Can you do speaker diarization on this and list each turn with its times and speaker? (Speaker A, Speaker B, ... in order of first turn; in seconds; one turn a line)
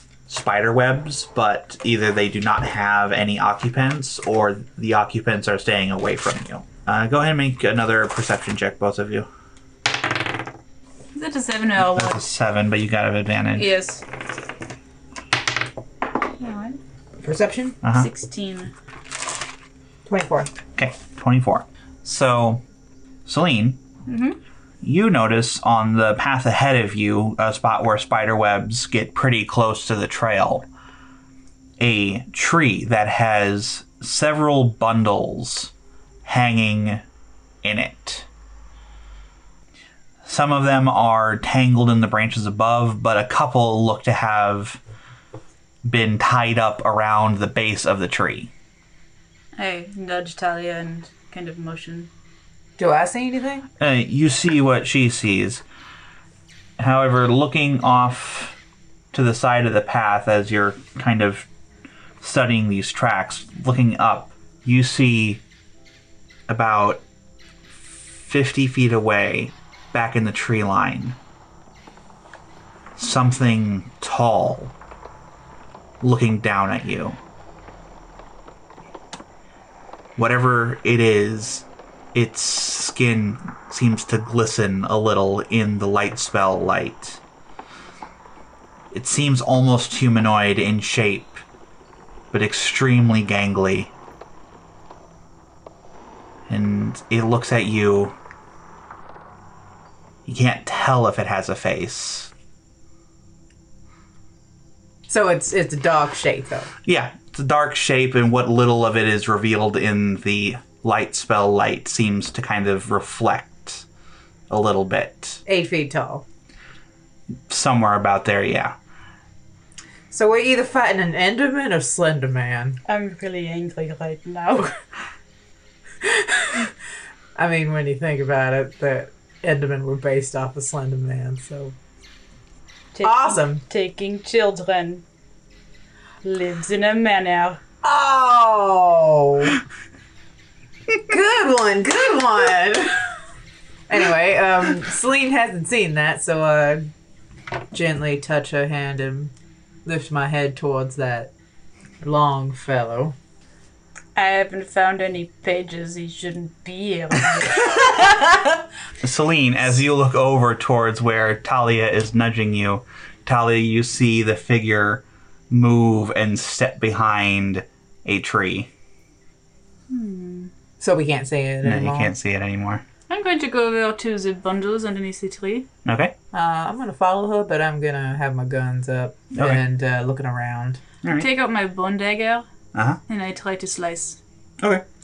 Speaker A: 0.3-9.3
Speaker B: 11.1-12.2
Speaker A: 11.8-13.7
Speaker B: 13.5-14.0
Speaker B: 16.4-16.8
Speaker C: 17.2-17.8
Speaker A: 17.8-18.1
Speaker B: 17.9-18.7
Speaker C: 20.1-20.5
Speaker A: 20.8-22.6
Speaker A: 23.2-23.8
Speaker B: 24.1-24.4
Speaker A: 24.8-30.7
Speaker A: 31.8-35.7
Speaker A: 36.2-37.0
Speaker A: 37.6-38.3
Speaker A: 40.2-44.8
Speaker A: 45.8-48.5
Speaker B: 49.5-52.1
Speaker C: 52.8-53.7
Speaker A: 53.8-55.6
Speaker A: 56.8-58.6
Speaker A: 59.1-61.5
Speaker A: 62.2-65.4
Speaker A: 66.5-67.0
Speaker A: 67.7-71.2
Speaker A: 73.0-74.7
Speaker A: 76.0-77.2
Speaker A: 80.2-87.2
Speaker A: 88.9-91.4
Speaker A: 92.3-93.9
Speaker A: 96.5-98.1
Speaker A: 100.2-102.3
Speaker C: 105.1-106.7
Speaker A: 106.8-113.8
Speaker A: 114.5-115.4
Speaker C: 115.5-116.2
Speaker A: 117.5-118.8
Speaker C: 120.1-122.8
Speaker B: 122.8-124.8
Speaker C: 127.3-131.7
Speaker B: 132.9-135.0
Speaker C: 133.0-133.6
Speaker B: 136.2-137.6
Speaker C: 137.8-139.6
Speaker C: 141.1-143.0
Speaker C: 143.9-146.9
Speaker C: 147.7-149.3
Speaker C: 149.8-151.3
Speaker C: 152.0-153.1
Speaker B: 154.1-158.5
Speaker A: 159.0-168.7
Speaker B: 169.9-170.5
Speaker C: 170.8-172.1
Speaker A: 171.6-172.8
Speaker B: 173.1-175.7
Speaker A: 175.8-176.1
Speaker C: 176.3-180.8
Speaker A: 179.3-179.6
Speaker A: 181.0-181.3
Speaker B: 181.1-182.5
Speaker A: 182.7-183.0
Speaker B: 183.1-184.2
Speaker A: 184.6-184.8